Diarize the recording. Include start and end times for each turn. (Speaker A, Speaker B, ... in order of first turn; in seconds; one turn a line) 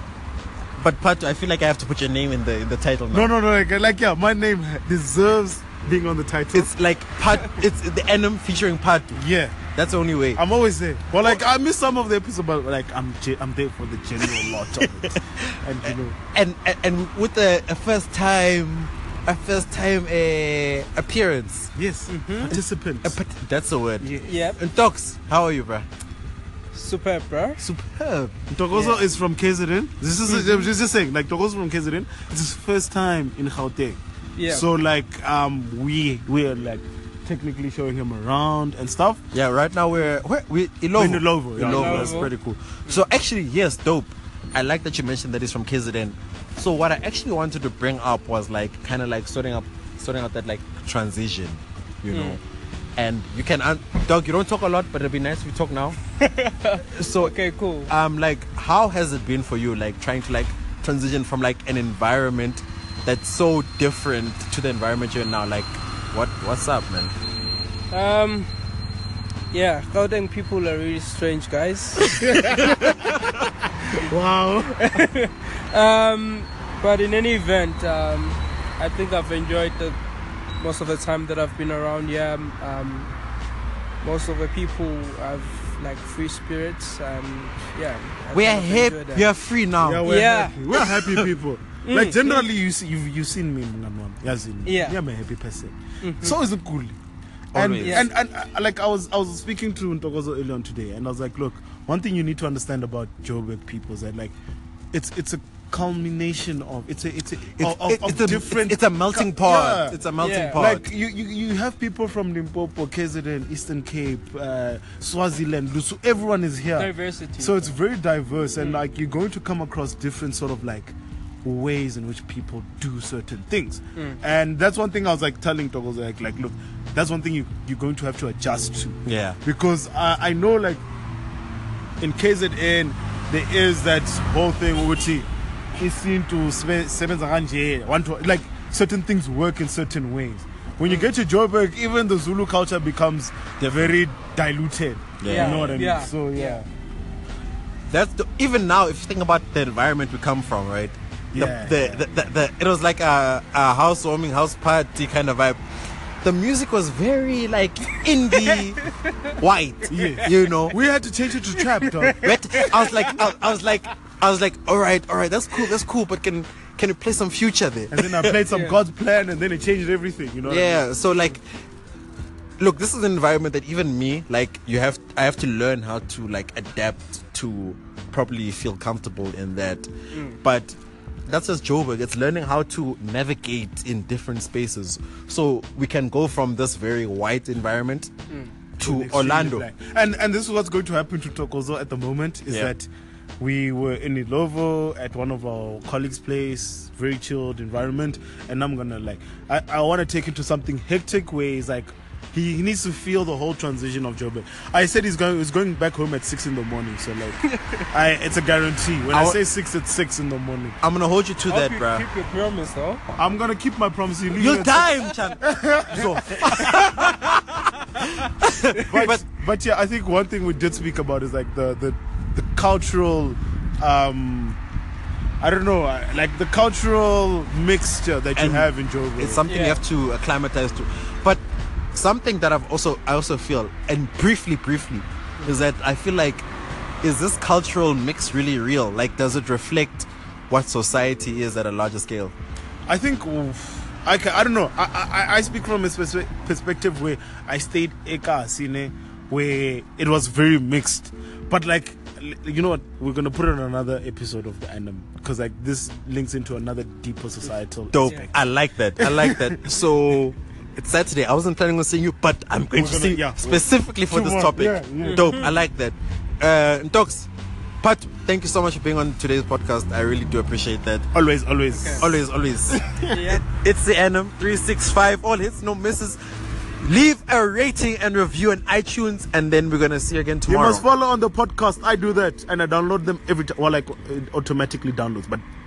Speaker A: 0.8-3.3
Speaker B: 3.1-6.7
Speaker A: 6.5-9.2
Speaker B: 9.1-9.6
Speaker A: 9.7-10.4
Speaker B: 10.3-16.2
Speaker A: 14.8-21.7
Speaker B: 21.7-23.2
Speaker C: 22.1-22.5
Speaker A: 22.5-25.9
Speaker B: 24.0-24.3
Speaker C: 24.2-24.6
Speaker C: 26.7-27.6
Speaker A: 27.6-28.3
Speaker B: 28.5-39.2
Speaker C: 28.7-29.1
Speaker C: 30.3-30.7
Speaker C: 34.4-34.6
Speaker A: 39.3-52.4
Speaker B: 40.9-42.3
Speaker C: 41.6-42.3
Speaker C: 52.1-52.4
Speaker A: 53.0-56.0
Speaker C: 56.2-57.9
Speaker A: 56.9-57.3
Speaker A: 57.9-67.1
Speaker C: 67.9-68.5
Speaker C: 69.5-72.1
Speaker B: 72.1-72.7
Speaker B: 74.0-74.8
Speaker C: 74.8-80.0
Speaker C: 80.6-83.1
Speaker C: 84.0-89.3
Speaker A: 88.3-90.0
Speaker B: 89.8-97.0
Speaker C: 90.0-90.6
Speaker C: 91.8-92.4
Speaker C: 94.6-95.0
Speaker C: 96.0-96.4
Speaker A: 97.5-98.1
Speaker B: 97.5-104.3
Speaker C: 97.8-98.1
Speaker B: 104.9-110.0
Speaker A: 107.6-110.8
Speaker C: 110.2-110.6
Speaker B: 110.5-130.8
Speaker C: 116.7-117.8
Speaker C: 124.0-124.2
Speaker A: 129.1-129.4
Speaker B: 132.0-146.7
Speaker C: 140.8-141.1
Speaker A: 145.2-145.7
Speaker C: 145.2-146.6
Speaker A: 147.9-155.6
Speaker B: 151.3-152.0
Speaker A: 156.2-158.8
Speaker A: 159.4-160.8
Speaker B: 159.9-162.3
Speaker C: 160.0-160.3
Speaker C: 161.6-163.1
Speaker A: 162.2-168.3
Speaker B: 167.9-171.0
Speaker C: 168.5-168.8
Speaker A: 170.4-171.4
Speaker A: 172.6-188.1
Speaker C: 180.1-180.4
Speaker A: 188.8-189.7
Speaker B: 188.8-210.8
Speaker C: 207.4-207.8
Speaker A: 209.1-209.4
Speaker A: 210.8-212.1
Speaker C: 211.5-213.0
Speaker B: 213.2-217.3
Speaker A: 214.3-217.4
Speaker A: 218.0-219.2
Speaker B: 218.8-224.6
Speaker B: 225.4-229.5
Speaker A: 228.3-231.4
Speaker C: 229.5-229.8
Speaker A: 231.9-236.5
Speaker A: 237.0-242.3
Speaker B: 242.9-258.1
Speaker A: 257.9-267.3
Speaker B: 259.0-259.5
Speaker B: 262.7-265.3
Speaker C: 265.0-265.5
Speaker A: 267.8-271.1
Speaker B: 271.1-272.1
Speaker C: 271.7-272.1
Speaker A: 272.0-272.8
Speaker B: 272.7-273.2
Speaker C: 273.1-273.4
Speaker A: 273.4-276.2
Speaker A: 276.8-280.9
Speaker B: 280.4-285.4